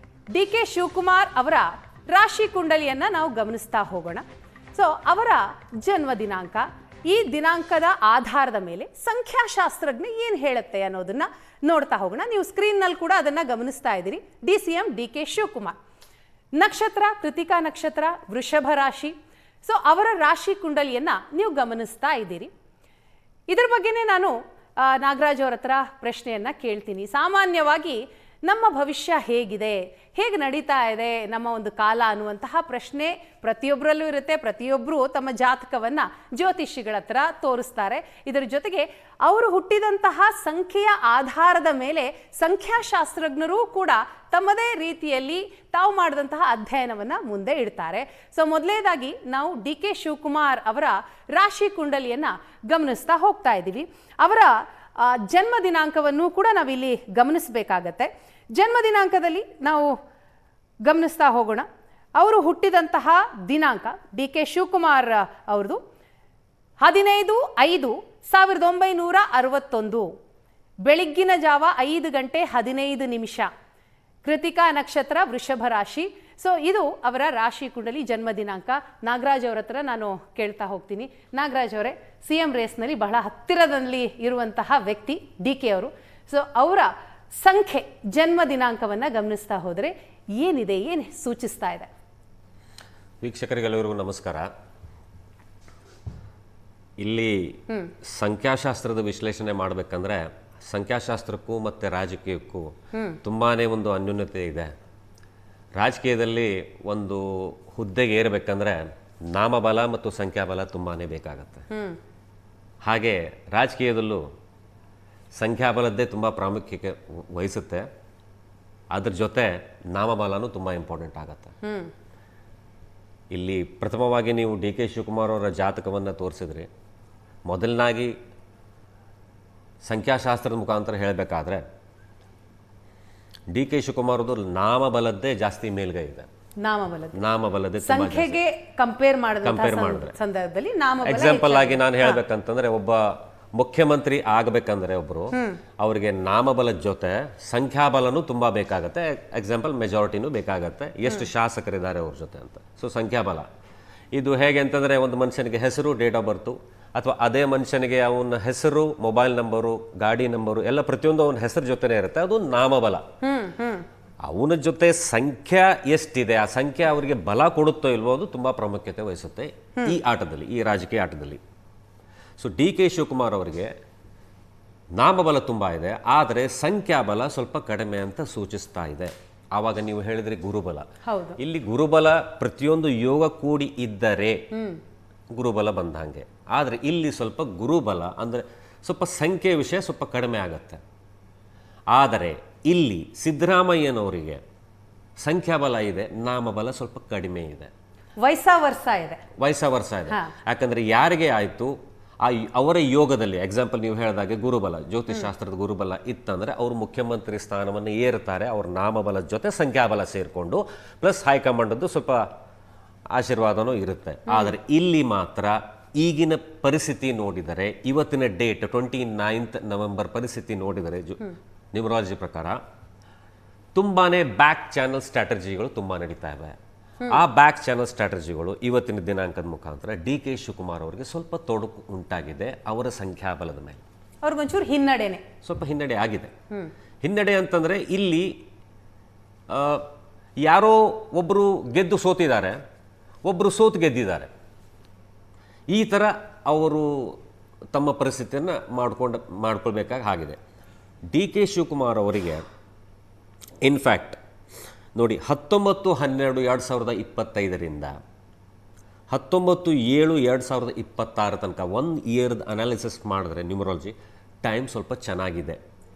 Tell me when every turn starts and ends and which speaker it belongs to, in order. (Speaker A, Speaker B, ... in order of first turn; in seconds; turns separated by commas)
Speaker A: 0.3-15.7, Speaker A: 16.6-22.5, Speaker A: 23.5-59.9, Speaker A: 60.9-61.6, Speaker A: 62.2-65.8, Speaker A: 66.8-70.1, Speaker A: 70.8-73.5, Speaker A: 74.2-91.9, Speaker B: 93.2-94.5, Speaker B: 97.0-102.7, Speaker A: 102.9-103.2, Speaker B: 103.2-104.7, Speaker B: 105.8-111.7, Speaker A: 111.7-112.0, Speaker B: 112.8-114.2, Speaker B: 115.4-117.9, Speaker B: 118.9-121.5, Speaker A: 121.6-121.9, Speaker B: 123.3-126.7, Speaker B: 127.5-128.1, Speaker B: 129.8-131.6, Speaker B: 133.5-136.3, Speaker A: 136.6-137.2, Speaker B: 137.2-138.4, Speaker A: 137.8-142.2, Speaker B: 139.4-140.2, Speaker B: 141.0-153.5, Speaker A: 145.3-145.6, Speaker B: 154.1-163.0, Speaker A: 163.2-163.8, Speaker B: 164.2-171.4, Speaker B: 172.4-173.7, Speaker B: 175.0-180.9, Speaker A: 181.1-181.4, Speaker B: 181.4-184.4, Speaker A: 184.5-184.8, Speaker B: 185.3-190.8, Speaker B: 191.9-194.4, Speaker B: 195.2-197.7, Speaker A: 198.2-199.2, Speaker B: 199.4-212.3, Speaker B: 213.1-221.2, Speaker A: 214.3-214.5, Speaker B: 221.7-222.6, Speaker B: 223.7-226.6, Speaker B: 227.1-233.8, Speaker A: 234.2-235.2, Speaker B: 235.4-236.3, Speaker B: 237.0-238.4, Speaker B: 239.5-239.9, Speaker B: 240.4-242.6, Speaker B: 243.3-244.3, Speaker B: 245.7-247.2, Speaker B: 247.7-250.4, Speaker B: 251.1-252.4, Speaker B: 253.6-254.2, Speaker B: 255.0-257.9, Speaker B: 259.1-265.6